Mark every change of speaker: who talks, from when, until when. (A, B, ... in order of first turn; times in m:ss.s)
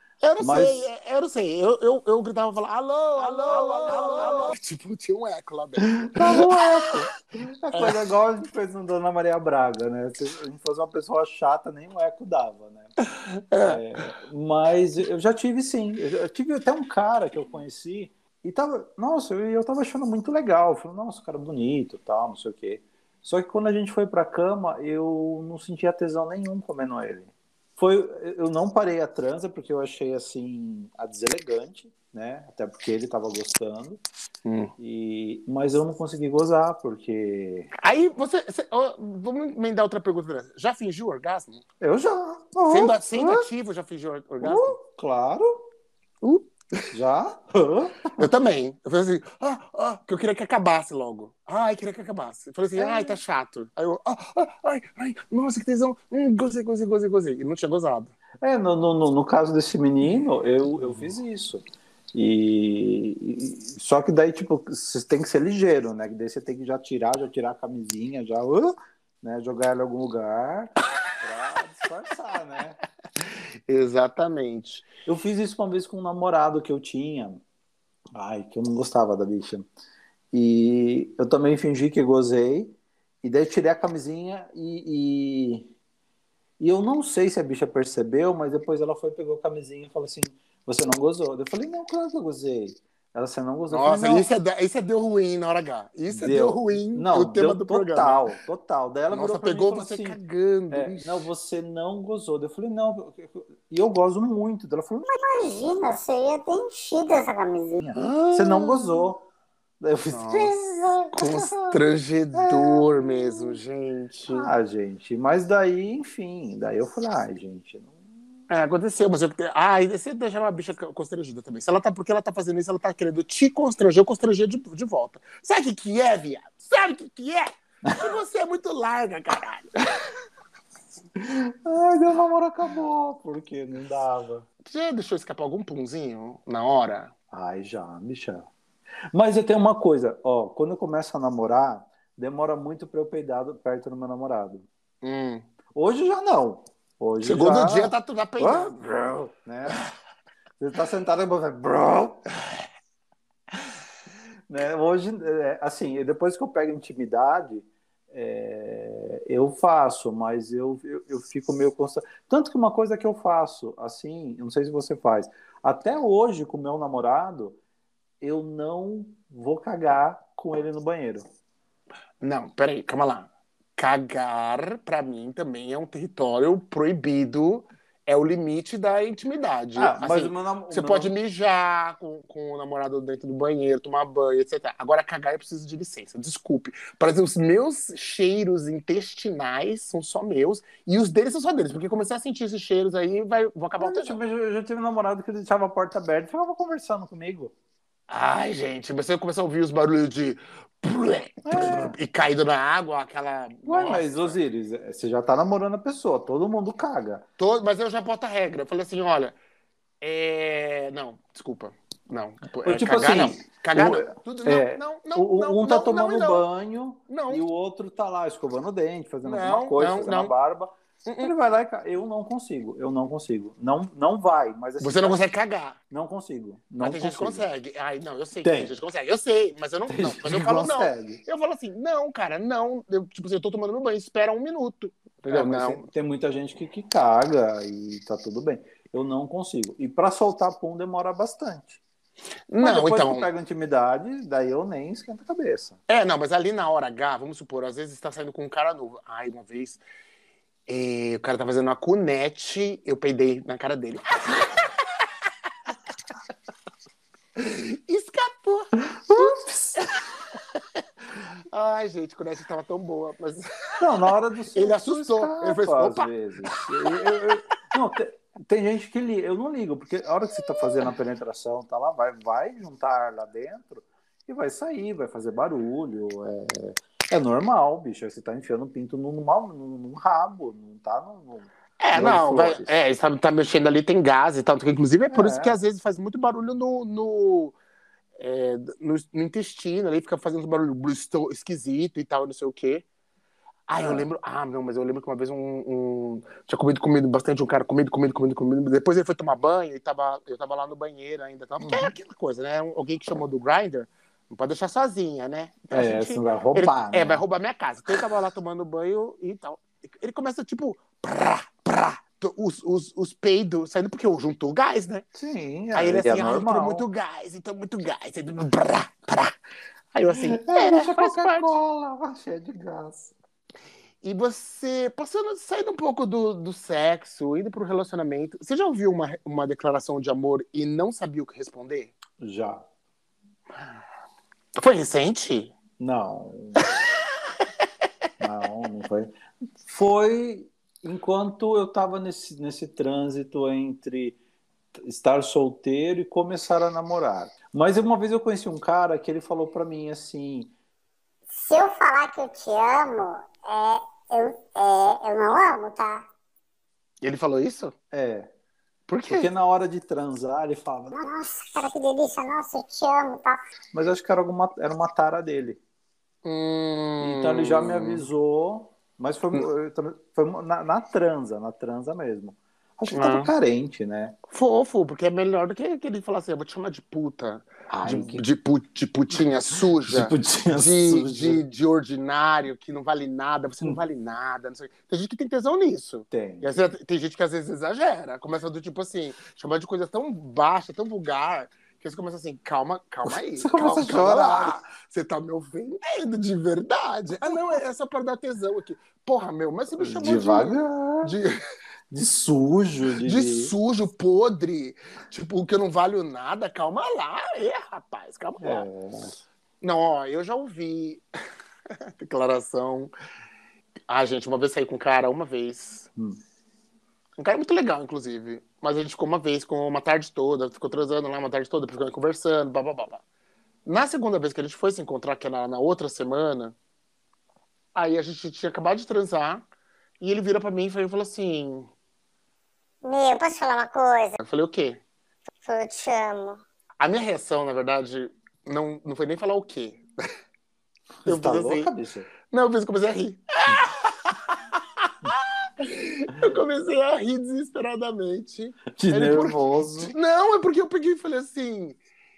0:00.2-0:07.0 A
0:00.4-0:00.8 B
0:03.2-0:04.5 B
0:05.8-0:12.9 B
0:07.7-0:08.0 A
0:13.2-0:13.8 A
0:13.6-0:34.0 B
0:34.4-0:34.7 A
0:34.8-0:37.7 B
0:37.8-0:41.6 A
0:41.8-0:43.5 B
0:42.7-0:44.8 A
0:44.4-0:45.5 B
0:46.2-0:46.9 A
0:46.9-0:48.3 B
0:48.2-0:58.1 A
0:52.8-0:53.2 B
0:58.4-1:12.8 B
1:13.2-1:14.9 A
1:15.1-1:17.4 B
1:18.2-1:19.7 B
1:20.3-1:25.7 B
1:26.6-1:34.3 B
1:33.7-1:38.3 A
1:36.1-1:40.2 B
1:39.1-1:41.3 A
1:40.7-1:45.1 B
1:45.1-1:47.8 C
1:47.8-1:49.2 B
1:48.0-1:49.1 A
1:49.8-1:51.8 B
1:50.1-1:50.6 A
1:51.1-1:54.5 A
1:52.4-1:53.6 B
1:54.3-1:58.0 B
1:58.5-2:10.0 A
2:11.2-2:14.5 B
2:14.6-2:17.1 A
2:17.3-2:18.5 B
2:19.1-2:24.7 B
2:25.0-2:25.4 A
2:25.7-2:29.8 B
2:27.2-2:28.8 A
2:30.6-2:32.2 B
2:34.5-2:47.6 B
2:48.2-2:51.2 B
2:52.2-3:14.2 A
2:59.8-3:01.1 B
3:13.8-3:17.5 B
3:18.1-3:24.4 A
3:21.5-3:22.0 B
3:23.6-3:27.2 B
3:27.4-3:29.4 A
3:30.0-3:36.4 A
3:32.6-3:45.2 B
3:37.1-3:37.5 A
3:39.2-3:40.3 A
3:41.1-3:41.3 A
3:44.8-3:45.8 A
3:45.9-3:47.5 B
3:46.8-3:55.9 A
3:48.4-3:48.8 B
3:49.9-3:51.2 B
3:55.3-4:01.8 B
4:02.5-4:03.3 A
4:02.6-4:05.8 B
4:05.9-4:09.8 A
4:10.7-4:14.7 A
4:17.4-4:20.0 A
4:19.1-4:19.8 B
4:21.5-4:23.8 A
4:23.8-4:42.7 B
4:24.5-4:27.4 A
4:41.8-4:47.6 A
4:45.1-4:45.6 B
4:48.2-4:52.8 A
4:53.7-5:15.0 A
4:53.8-4:54.1 B
5:01.6-5:01.9 B
5:05.7-5:07.2 B
5:15.2-5:16.9 B
5:15.7-5:19.3 A
5:19.9-5:21.6 A
5:20.1-5:23.1 B
5:24.0-5:31.9 A
5:32.2-5:32.6 B
5:34.6-5:35.5 A
5:35.8-5:36.6 B
5:38.2-5:44.2 B
5:44.8-5:50.5 B
5:51.3-5:56.1 C
5:57.0-5:57.8 A
5:57.9-5:58.3 B
5:58.9-5:59.3 A
5:59.1-6:01.0 B
6:01.0-6:03.4 C
6:03.7-6:05.6 B
6:06.2-6:08.1 A
6:07.0-6:14.2 B
6:12.9-6:13.3 A
6:14.3-6:41.4 A
6:17.7-6:18.2 B
6:19.9-6:21.4 B
6:26.1-6:26.5 B
6:33.1-6:34.6 B
6:37.2-6:37.6 B
6:39.8-6:41.2 B
6:41.9-6:43.5 B
6:43.0-6:48.7 A
6:48.4-6:49.1 B
6:49.6-6:51.0 A
6:52.0-6:52.9 A
6:53.9-6:55.9 A
6:57.2-7:03.0 A
7:03.6-7:06.6 A
7:07.8-7:09.4 A
7:10.0-7:11.7 A
7:12.8-7:14.2 C
7:14.2-7:14.8 A
7:15.4-7:16.4 C
7:16.8-7:19.8 A
7:21.0-7:22.1 B
7:21.0-7:21.7 A
7:22.3-7:31.8 A
7:28.8-7:29.9 B